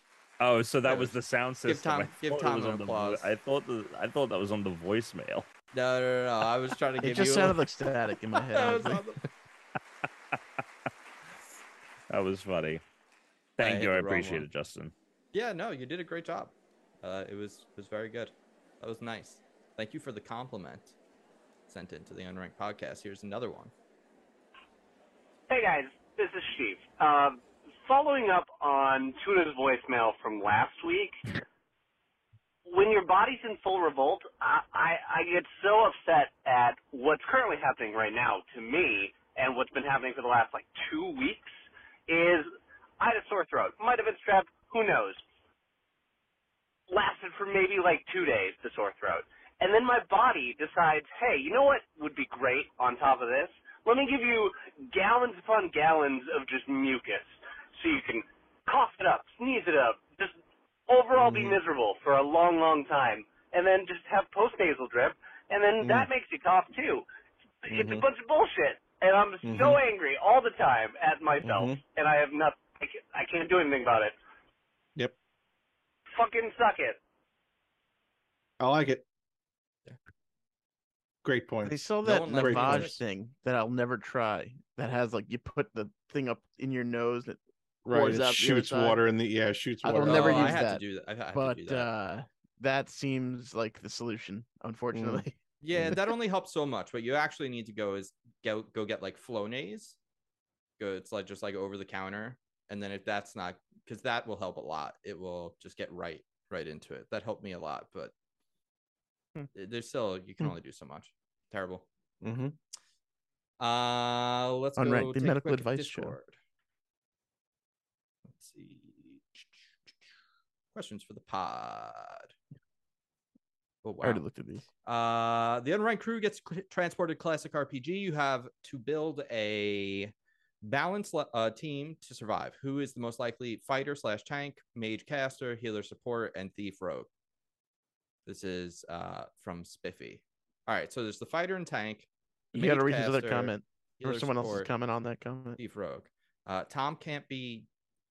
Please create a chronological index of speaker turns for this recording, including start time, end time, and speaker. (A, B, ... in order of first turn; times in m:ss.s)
0:00.4-0:05.5 A
0:00.8-0:01.1 B
0:01.6-0:03.3 B
0:05.7-0:07.6 B
0:07.0-0:09.0 C
0:08.3-0:09.2 B
0:12.1-0:12.8 A
0:13.6-0:14.9 A
0:13.6-0:14.5 B
0:15.3-0:21.0 B
0:21.7-0:23.7 B
0:25.5-0:31.2 D
0:32.7-0:41.5 D
0:42.1-0:45.2 D
0:46.9-1:00.4 D
1:00.9-1:07.0 D
1:01.2-1:01.6 E
1:05.8-1:06.1 E
1:07.6-1:14.2 D
1:07.7-1:08.0 E
1:09.4-1:09.8 E
1:11.4-1:11.8 E
1:16.1-1:17.0 D
1:18.6-1:19.0 E
1:21.2-1:23.0 E
1:21.6-1:29.0 C
1:22.0-1:23.0 B
1:27.8-1:30.6 E
1:29.8-1:35.4 C
1:30.0-1:31.9 B
1:34.9-1:35.2 E
1:35.6-1:40.0 B
1:40.8-1:48.1 B
1:49.6-1:51.9 B
1:52.2-1:52.6 E
1:53.6-1:56.3 B
1:54.8-1:56.2 C
1:58.4-1:59.5 B
2:00.7-2:02.3 B
2:03.8-2:04.2 B
2:04.0-2:04.6 C
2:04.8-2:17.1 B
2:18.3-2:24.7 B
2:22.5-2:25.6 C
2:25.6-2:27.7 B